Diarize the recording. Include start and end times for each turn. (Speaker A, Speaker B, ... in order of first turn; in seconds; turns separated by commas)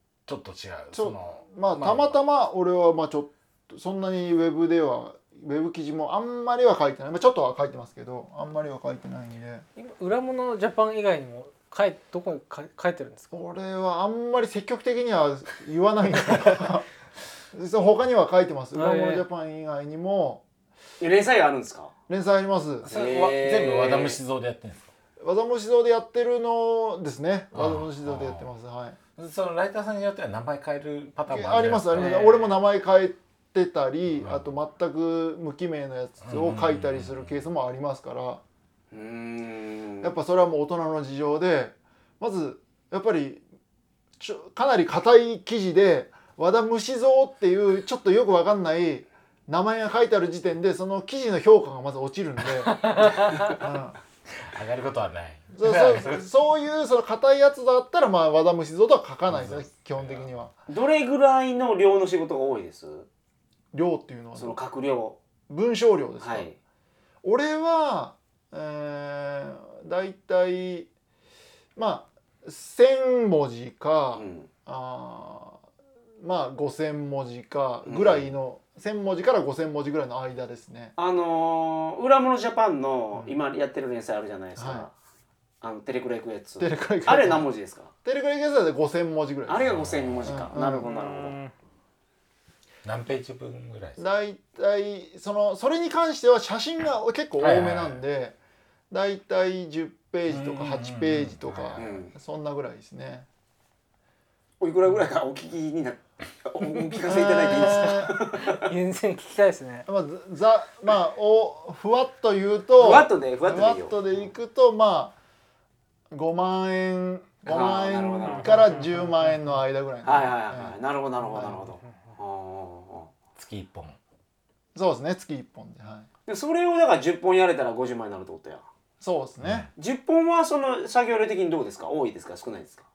Speaker A: 0.3-2.1, Speaker B: 0.9-9.6, Speaker C: 9.8-13.3, Speaker B: 13.3-16.9, Speaker B: 17.5-20.4, Speaker C: 18.7-19.2, Speaker D: 21.0-21.9, Speaker B: 22.1-22.9, Speaker D: 22.8-24.2, Speaker A: 22.8-24.9, Speaker B: 25.2-29.0, Speaker A: 27.5-28.4, Speaker A: 29.2-32.2, Speaker B: 31.3-38.4, Speaker C: 31.9-32.6, Speaker A: 34.1-34.5, Speaker A: 36.2-37.4, Speaker D: 38.9-40.1, Speaker B: 40.0-43.4, Speaker B: 44.2-52.9, Speaker C: 52.7-53.6, Speaker B: 53.5-54.0, Speaker A: 54.4-56.2, Speaker B: 55.5-60.5, Speaker A: 59.3-60.3, Speaker D: 60.7-63.1, Speaker B: 63.7-64.6, Speaker D: 64.3-65.2, Speaker B: 65.5-66.5, Speaker D: 66.2-66.5, Speaker B: 67.2-70.9, Speaker B: 71.8-75.6, Speaker D: 74.1-74.5, Speaker B: 76.2-80.9, Speaker D: 77.8-78.3, Speaker D: 81.0-84.9, Speaker B: 84.6-84.9, Speaker D: 85.6-87.9, Speaker B: 86.6-87.5, Speaker B: 88.0-89.6, Speaker D: 89.5-91.4, Speaker A: 89.6-90.3, Speaker B: 90.2-90.9, Speaker C: 90.8-91.5, Speaker A: 92.8-94.0, Speaker B: 94.0-98.3, Speaker A: 97.4-98.0, Speaker B: 98.9-103.3, Speaker A: 100.3-101.9, Speaker D: 101.8-102.1, Speaker D: 104.6-108.7, Speaker B: 107.0-108.2, Speaker C: 108.4-109.9, Speaker B: 109.8-115.1, Speaker D: 112.8-114.0, Speaker B: 116.1-120.7, Speaker D: 117.4-118.7, Speaker C: 118.2-119.2, Speaker D: 120.0-123.1, Speaker B: 121.3-121.6, Speaker A: 123.3-124.0, Speaker B: 124.7-126.1, Speaker D: 126.3-128.6, Speaker B: 129.0-129.7, Speaker A: 129.4-129.7, Speaker D: 129.8-132.8